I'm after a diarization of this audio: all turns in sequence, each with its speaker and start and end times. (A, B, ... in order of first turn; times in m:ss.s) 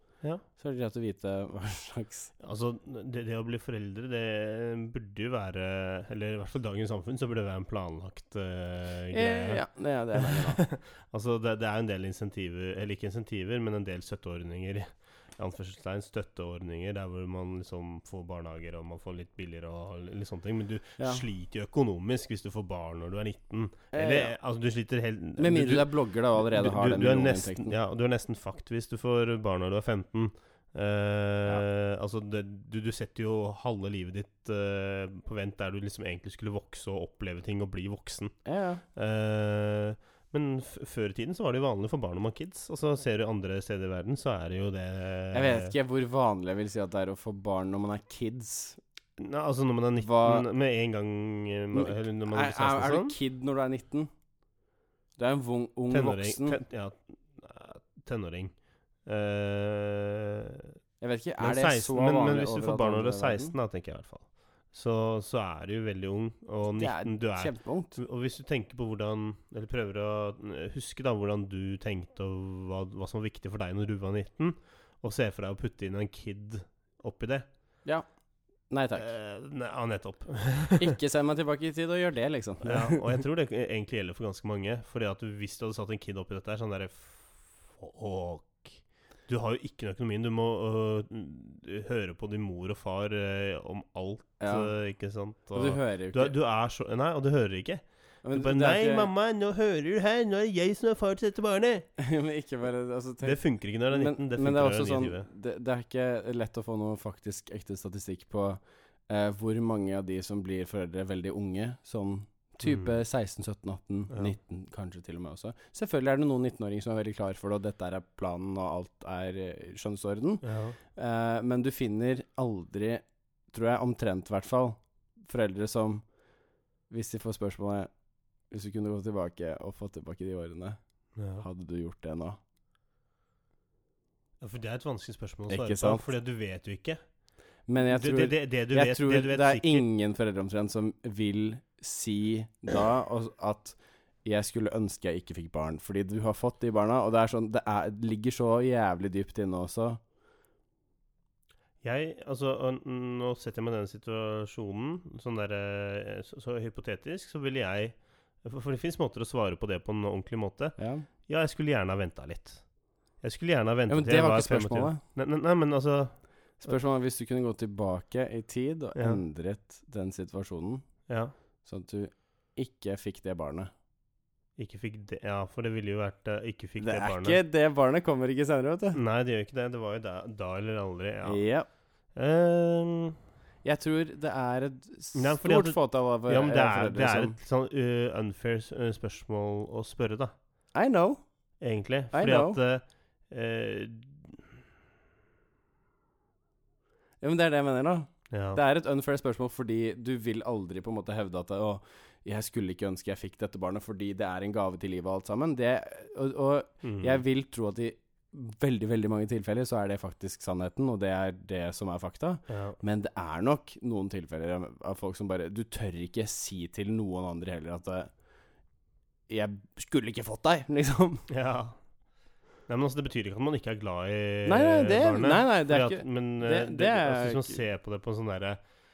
0:00.6-0:02.3 A
0:02.4-0:09.6 B
0:09.1-0:10.6 A
0:10.2-0:38.4 B
0:21.0-0:21.2 A
0:23.9-0:24.4 A
0:25.4-0:27.8 A
0:38.4-0:38.8 A
0:38.9-0:45.8 B
0:45.3-0:48.8 A
0:49.2-0:53.2 B
0:50.0-0:50.5 A
0:51.7-0:54.1 A
0:55.2-0:56.6 A
0:55.9-1:00.7 B
1:01.0-1:03.5 A
1:01.4-1:17.5 B
1:06.8-1:08.0 A
1:18.7-1:19.1 A
1:19.0-1:20.9 B
1:20.8-1:23.2 A
1:22.6-1:41.9 B
1:34.4-1:34.8 A
1:35.5-1:36.4 A
1:38.2-1:39.1 A
1:42.0-2:06.0 A
1:43.2-1:45.3 B
1:52.6-1:53.0 B
2:00.4-2:00.8 B
2:06.9-2:07.9 A
2:08.5-2:10.8 A
2:11.2-2:11.4 B
2:11.4-2:12.4 A
2:14.4-2:17.0 B
2:15.5-2:16.1 A
2:17.7-2:30.0 A
2:17.9-2:19.8 B
2:31.8-2:42.6 B
2:40.8-2:41.1 A
2:43.2-2:46.7 B
2:43.9-2:45.0 A
2:46.6-2:51.0 A
2:49.0-2:49.2 B
2:51.1-2:51.3 B
2:51.6-2:53.7 A
2:54.6-2:57.4 B
2:56.8-2:59.0 A
2:58.9-3:01.4 B
3:01.3-3:01.7 A
3:02.1-3:03.2 B
3:03.6-3:07.4 A
3:05.1-3:10.4 B
3:10.7-3:11.2 A
3:11.6-3:14.4 B
3:12.1-3:12.6 A
3:17.2-3:38.1 A
3:18.3-3:18.6 B
3:26.8-3:27.2 B
3:32.5-3:32.8 B
3:39.3-3:41.3 A
3:41.3-3:41.8 B
3:42.7-3:48.6 B
3:44.5-3:47.6 A